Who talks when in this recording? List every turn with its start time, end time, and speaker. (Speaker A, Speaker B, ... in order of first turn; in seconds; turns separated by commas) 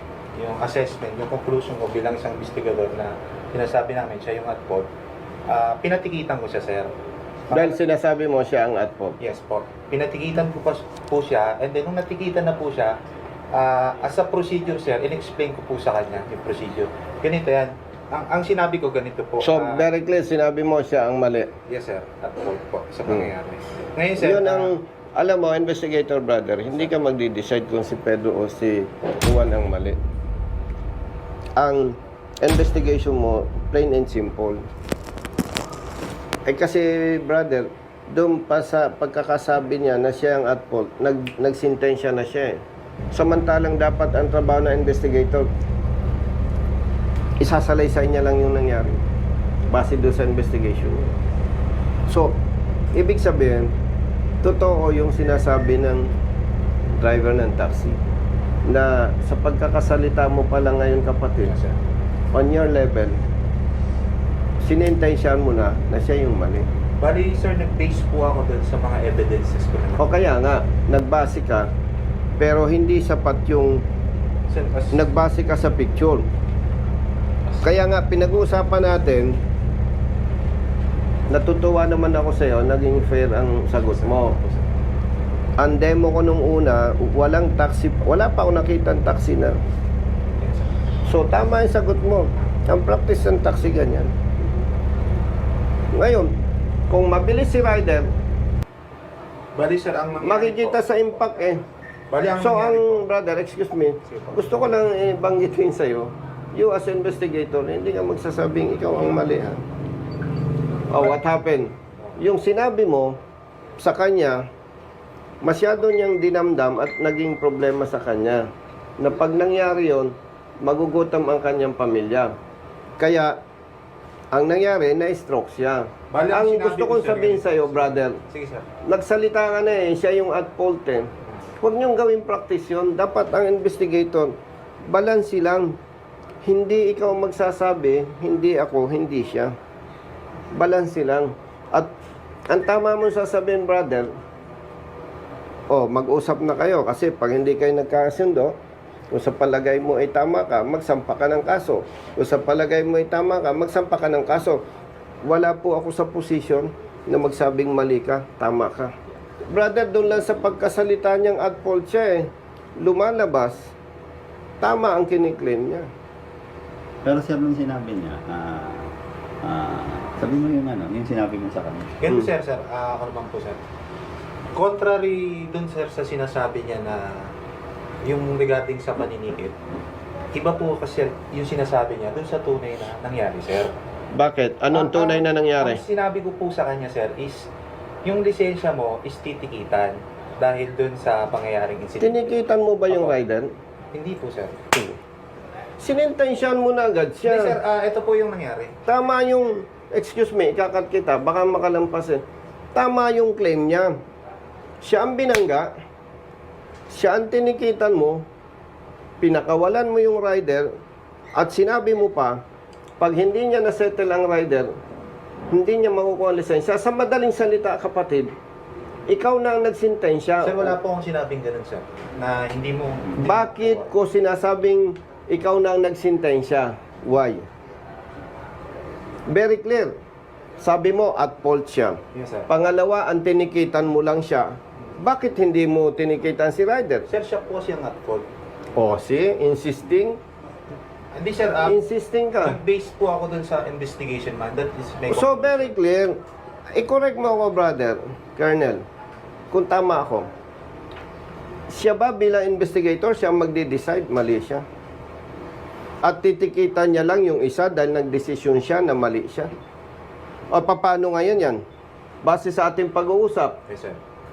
Speaker A: 0.4-4.9, Speaker A: 5.5-6.9, Speaker A: 7.5-7.8, Speaker B: 7.5-9.2, Speaker A: 9.2-12.9, Speaker A: 13.5-19.8, Speaker B: 19.4-21.5, Speaker A: 21.7-24.7, Speaker B: 24.2-30.0, Speaker B: 31.6-34.6, Speaker B: 36.4-42.6, Speaker B: 43.1-45.5, Speaker B: 47.4-49.0, Speaker B: 49.7-51.1, Speaker B: 52.1-52.4, Speaker B: 52.9-53.7, Speaker B: 54.4-56.1, Speaker B: 57.0-58.0, Speaker B: 58.7-61.5, Speaker A: 61.4-61.8, Speaker B: 62.3-63.2, Speaker B: 64.6-66.7, Speaker A: 67.0-70.1, Speaker B: 70.0-71.7, Speaker B: 72.4-73.8, Speaker A: 74.5-75.1, Speaker B: 74.9-76.3, Speaker B: 77.6-79.4, Speaker B: 81.3-84.3, Speaker A: 83.8-84.7, Speaker B: 85.6-89.6, Speaker A: 90.4-90.7, Speaker B: 91.0-94.1, Speaker B: 95.9-96.3, Speaker B: 96.9-98.1, Speaker A: 99.5-100.8, Speaker B: 100.2-101.6, Speaker A: 102.1-103.0, Speaker B: 102.4-109.6, Speaker A: 104.1-104.4, Speaker B: 110.9-113.2, Speaker B: 113.8-114.4, Speaker B: 115.4-118.4, Speaker B: 119.0-122.3, Speaker B: 123.0-123.4, Speaker B: 124.3-128.2, Speaker A: 126.1-128.7, Speaker B: 128.8-131.1, Speaker B: 131.6-134.3, Speaker B: 134.9-135.8, Speaker B: 136.4-139.5, Speaker B: 140.5-141.9, Speaker B: 142.5-144.1, Speaker B: 145.7-148.5, Speaker B: 149.1-154.6, Speaker B: 155.2-158.9, Speaker B: 159.5-163.7, Speaker B: 164.6-165.9, Speaker C: 167.0-172.0, Speaker A: 172.0-173.6, Speaker A: 174.5-177.3, Speaker A: 178.0-179.6, Speaker A: 180.3-183.7, Speaker B: 184.1-185.8, Speaker A: 184.7-187.5, Speaker A: 188.0-193.2, Speaker B: 192.0-193.5, Speaker A: 193.9-194.6, Speaker B: 195.8-197.6, Speaker A: 197.2-198.7, Speaker B: 198.8-202.2, Speaker B: 202.7-203.9, Speaker B: 204.8-205.7, Speaker B: 206.9-208.2, Speaker B: 209.2-210.7, Speaker B: 211.3-212.4, Speaker B: 213.0-214.7, Speaker B: 215.5-218.3, Speaker B: 219.1-220.8, Speaker A: 220.4-223.9, Speaker B: 223.2-227.5, Speaker B: 229.3-229.9, Speaker B: 230.6-237.1, Speaker A: 232.1-232.5, Speaker A: 237.1-238.2, Speaker B: 238.8-240.2, Speaker A: 241.1-241.8, Speaker B: 241.7-242.6, Speaker A: 242.4-245.8, Speaker B: 245.1-246.1, Speaker B: 246.7-248.8, Speaker B: 249.5-250.3, Speaker B: 251.7-254.6, Speaker B: 256.0-259.5, Speaker B: 260.5-261.6, Speaker B: 262.2-263.6, Speaker A: 263.7-264.0